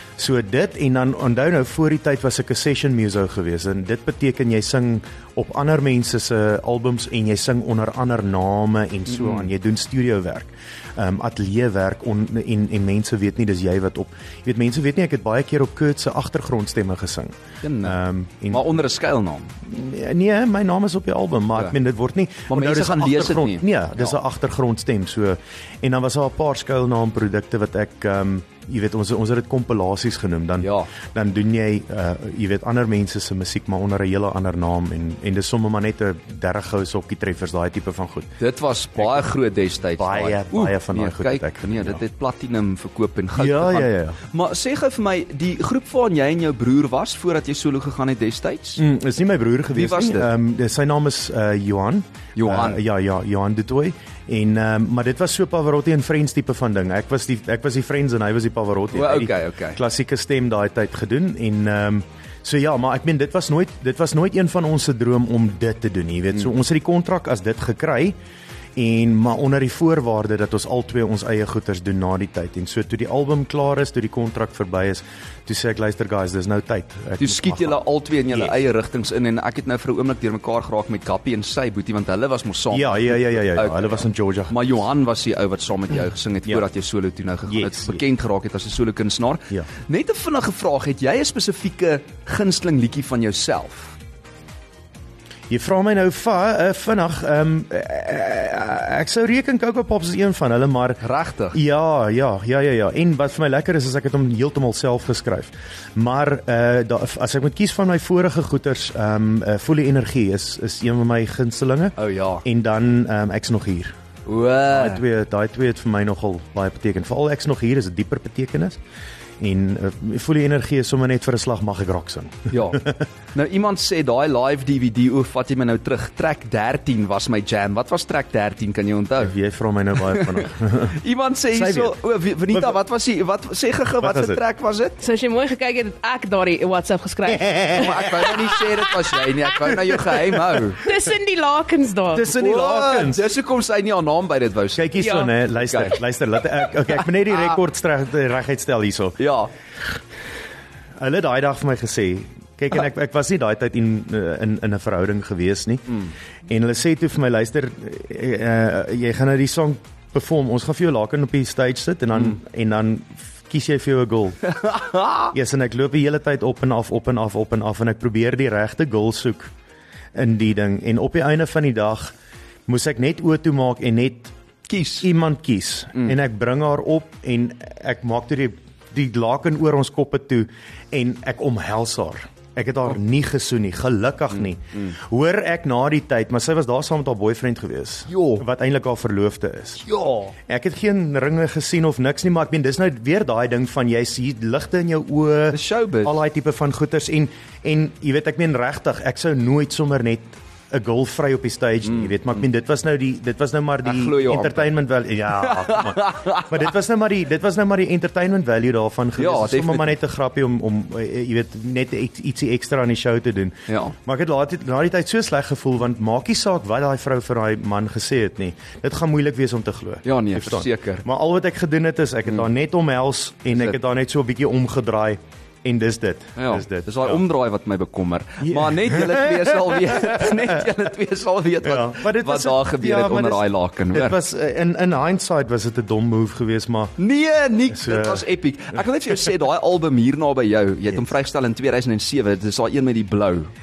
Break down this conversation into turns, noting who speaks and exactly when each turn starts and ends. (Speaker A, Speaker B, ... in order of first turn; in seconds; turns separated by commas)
Speaker A: 0.2-18.7, Speaker B: 9.1-9.5, Speaker B: 17.6-18.0, Speaker B: 18.5-19.5, Speaker A: 19.6-38.3, Speaker B: 22.5-24.1, Speaker B: 30.6-30.9, Speaker B: 38.4-48.8, Speaker A: 40.0-42.0, Speaker A: 43.4-44.2, Speaker A: 48.8-68.2, Speaker B: 49.7-50.3, Speaker B: 52.4-52.8, Speaker B: 58.9-59.8, Speaker A: 68.8-77.8, Speaker B: 77.2-94.0, Speaker A: 82.7-84.7, Speaker A: 87.5-88.0, Speaker A: 95.5-101.0, Speaker B: 101.0-101.6, Speaker A: 101.5-113.9, Speaker B: 112.0-112.4, Speaker B: 114.2-115.0, Speaker A: 114.7-118.8, Speaker A: 119.4-123.0, Speaker B: 122.5-129.3, Speaker A: 129.2-131.0, Speaker B: 130.1-135.0, Speaker A: 131.5-132.0, Speaker A: 132.5-132.8, Speaker A: 134.0-134.4, Speaker C: 135.0-138.6, Speaker A: 137.2-138.4, Speaker B: 137.7-140.8, Speaker A: 139.9-140.5, Speaker C: 140.8-142.3, Speaker A: 142.1-143.3, Speaker B: 142.2-146.0, Speaker A: 144.7-149.2, Speaker C: 145.0-145.3, Speaker B: 149.2-149.5, Speaker A: 151.0-164.5, Speaker B: 164.5-165.3, Speaker A: 165.3-169.5, Speaker A: 170.1-172.1, Speaker A: 172.7-174.3, Speaker B: 174.7-175.1, Speaker A: 175.0-189.9, Speaker B: 188.1-188.4, Speaker B: 189.9-190.3, Speaker A: 190.5-227.2, Speaker B: 195.5-196.2, Speaker B: 201.9-202.2, Speaker B: 203.8-204.7, Speaker B: 205.4-206.7, Speaker B: 209.2-209.9, Speaker B: 213.7-213.9, Speaker B: 220.0-221.1, Speaker B: 226.4-234.2, Speaker A: 228.4-230.6, Speaker A: 231.6-236.9, Speaker B: 237.0-243.5, Speaker A: 237.7-238.2